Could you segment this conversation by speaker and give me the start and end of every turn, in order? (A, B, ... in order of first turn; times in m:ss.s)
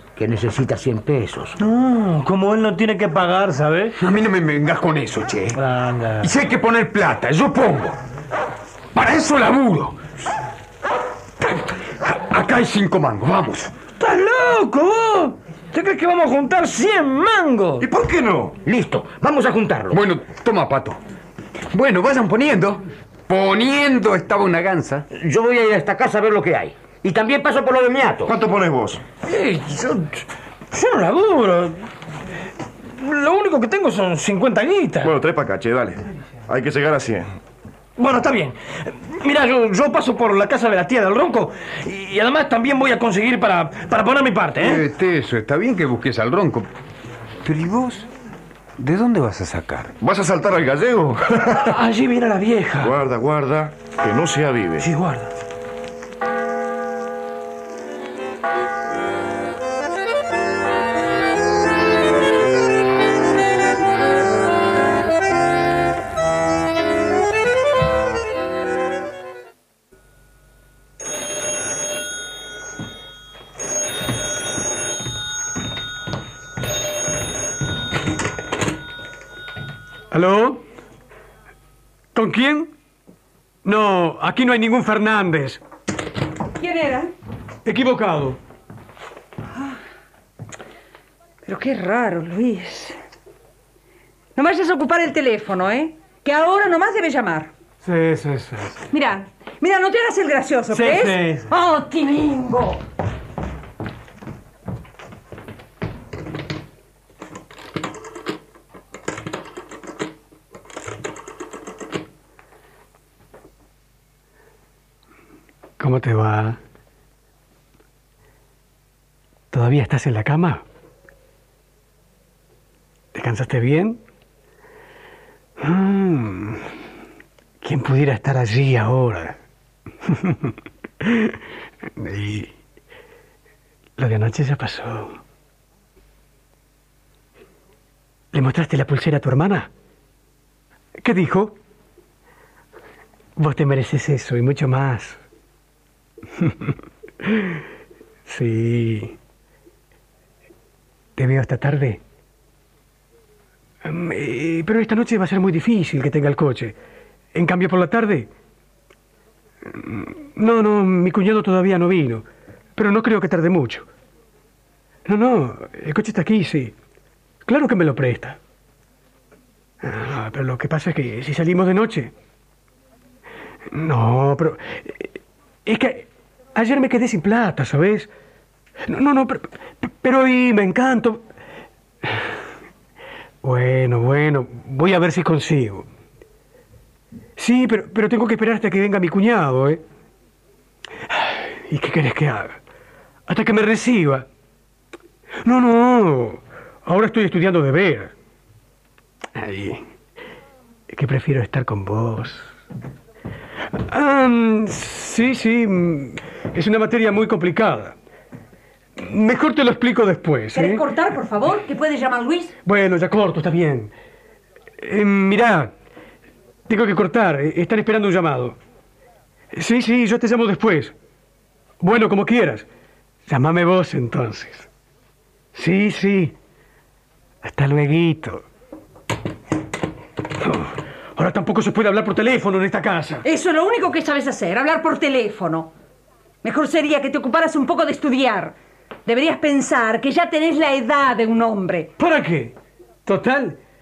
0:00.2-0:01.5 A
0:01.6-0:03.9 B
0:04.0-0:05.6 C
0:05.5-0:06.3 B
0:06.2-0:08.0 C
0:08.9-0:10.0 C
0:11.4-0:13.7 C
0:14.0-0:17.8 B
0:17.8-0:18.6 D
0:18.6-0:20.0 A
0:19.9-0:21.0 C
0:21.7-0:25.0 C
0:25.1-0:28.3 A
0:28.2-0:29.0 D
0:29.2-0:31.8 B
0:33.0-0:35.1 B
0:35.0-0:37.3 D
0:38.0-0:44.8 B
0:44.6-0:46.7 C
0:47.4-0:48.1 C
0:48.8-0:49.9 C
0:50.0-0:51.7 D
0:51.5-0:52.9 B
0:52.8-0:54.9 D
0:54.8-0:55.3 B
1:20.1-1:20.6 E
1:22.1-1:22.7 E
1:23.6-1:25.6 E
1:26.6-1:27.1 F
1:27.6-1:28.4 E
1:31.4-1:33.0 F
1:34.4-1:37.5 F
1:37.8-1:38.8 E
1:38.9-1:42.8 F
1:40.7-1:41.4 E
1:55.8-1:56.6 E
1:59.5-2:00.6 E
2:03.1-2:04.0 E
2:05.6-2:06.6 E
2:07.6-2:09.4 E
2:10.1-2:10.5 E
2:11.0-2:11.3 E
2:12.0-2:12.5 E
2:14.0-2:15.2 E
2:18.3-2:19.7 E
2:21.0-2:21.6 E
2:23.4-2:25.2 E
2:26.4-2:27.5 E
2:28.2-2:29.2 E
2:31.2-2:32.0 E
2:33.8-2:36.8 E
2:37.3-2:38.3 E
2:39.7-2:43.9 E
2:45.0-2:46.7 E
2:47.4-2:48.4 E
2:49.8-2:52.1 E
2:53.7-2:55.1 E
2:55.6-2:58.1 E
2:58.9-3:01.3 E
3:03.4-3:05.9 E
3:07.4-3:09.8 E
3:11.1-3:12.6 E
3:13.3-3:14.3 E
3:15.4-3:18.1 E
3:19.3-3:19.8 E
3:20.9-3:22.5 E
3:23.9-3:28.0 E
3:29.0-3:30.8 E
3:30.5-3:32.5 F
3:32.6-3:33.9 E
3:34.8-3:35.7 E
3:36.7-3:38.6 E
3:39.5-3:40.9 E
3:41.8-3:42.7 E
3:43.3-3:44.7 E
3:45.5-3:46.3 E
3:47.4-3:48.4 E
3:50.4-3:53.2 E
3:53.2-3:55.7 F
3:56.4-3:58.5 F
3:59.0-4:01.9 F
4:02.0-4:02.5 E
4:03.0-4:03.6 E